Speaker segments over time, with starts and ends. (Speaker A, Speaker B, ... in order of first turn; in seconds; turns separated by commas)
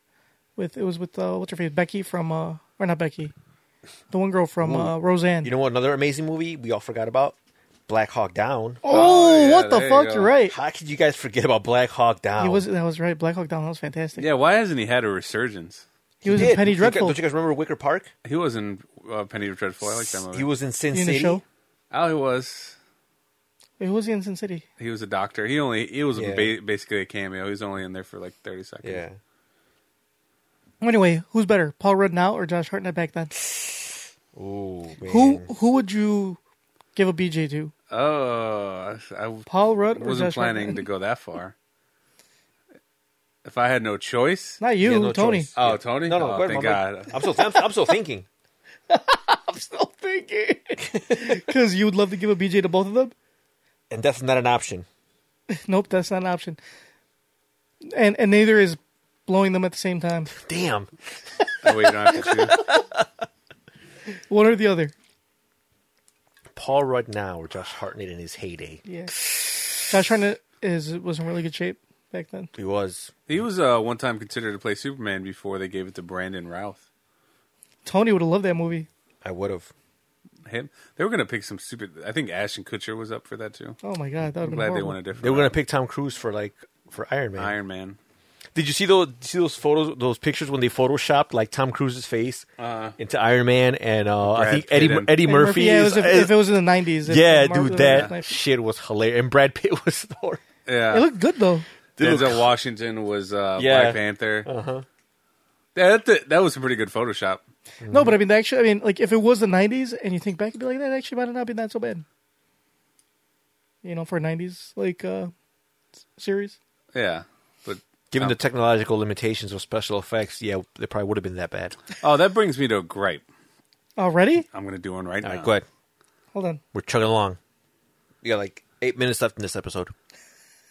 Speaker A: 0.6-3.3, Speaker A: 4.1-5.5, Speaker B: 4.6-7.3, Speaker B: 7.9-8.8, Speaker A: 8.8-10.5, Speaker C: 8.9-10.3, Speaker B: 10.5-12.7, Speaker A: 12.4-14.3, Speaker C: 14.2-15.8, Speaker A: 16.2-17.2, Speaker B: 16.2-18.1, Speaker C: 18.2-20.5, Speaker B: 20.0-21.4, Speaker A: 20.9-21.4, Speaker C: 21.9-22.8, Speaker A: 23.8-24.6, Speaker C: 24.8-29.0, Speaker B: 26.1-26.5, Speaker B: 28.8-29.2, Speaker A: 30.8-33.4, Speaker B: 34.3-35.5, Speaker A: 35.1-36.4, Speaker A: 37.0-37.7, Speaker C: 37.9-41.5, Speaker A: 39.5-40.8, Speaker C: 43.4-44.6, Speaker A: 44.6-45.5, Speaker B: 44.8-48.2, Speaker C: 45.6-47.1, Speaker A: 48.9-53.1, Speaker B: 53.9-54.9, Speaker A: 55.5-56.6, Speaker A: 57.8-60.3, Speaker B: 60.3-60.9, Speaker C: 61.6-62.6, Speaker B: 62.1-63.0, Speaker A: 64.3-64.9, Speaker B: 66.5-68.8, Speaker A: 68.8-69.1, Speaker A: 69.8-72.5, Speaker B: 72.5-73.1, Speaker C: 73.3-76.8, Speaker A: 77.8-78.9, Speaker B: 79.2-79.7, Speaker C: 80.4-83.8, Speaker A: 83.8-84.9, Speaker C: 84.4-85.5, Speaker B: 85.2-87.5, Speaker C: 87.4-88.0, Speaker B: 88.5-92.5, Speaker C: 92.6-93.0, Speaker B: 93.0-96.4, Speaker C: 94.2-95.2, Speaker A: 95.2-98.3, Speaker B: 97.0-100.4, Speaker C: 100.7-101.1, Speaker A: 100.9-101.7, Speaker B: 102.0-102.5, Speaker C: 102.0-104.5, Speaker B: 103.6-104.8, Speaker C: 105.7-107.4, Speaker B: 107.8-108.1, Speaker A: 107.9-112.0, Speaker A: 113.8-115.3, Speaker A: 116.2-116.6, Speaker C: 116.9-118.3, Speaker B: 118.1-121.8, Speaker C: 122.0-123.2, Speaker A: 124.0-124.5, Speaker C: 124.5-125.5, Speaker B: 125.2-125.7, Speaker A: 126.3-126.6, Speaker B: 126.7-127.4, Speaker B: 128.2-129.9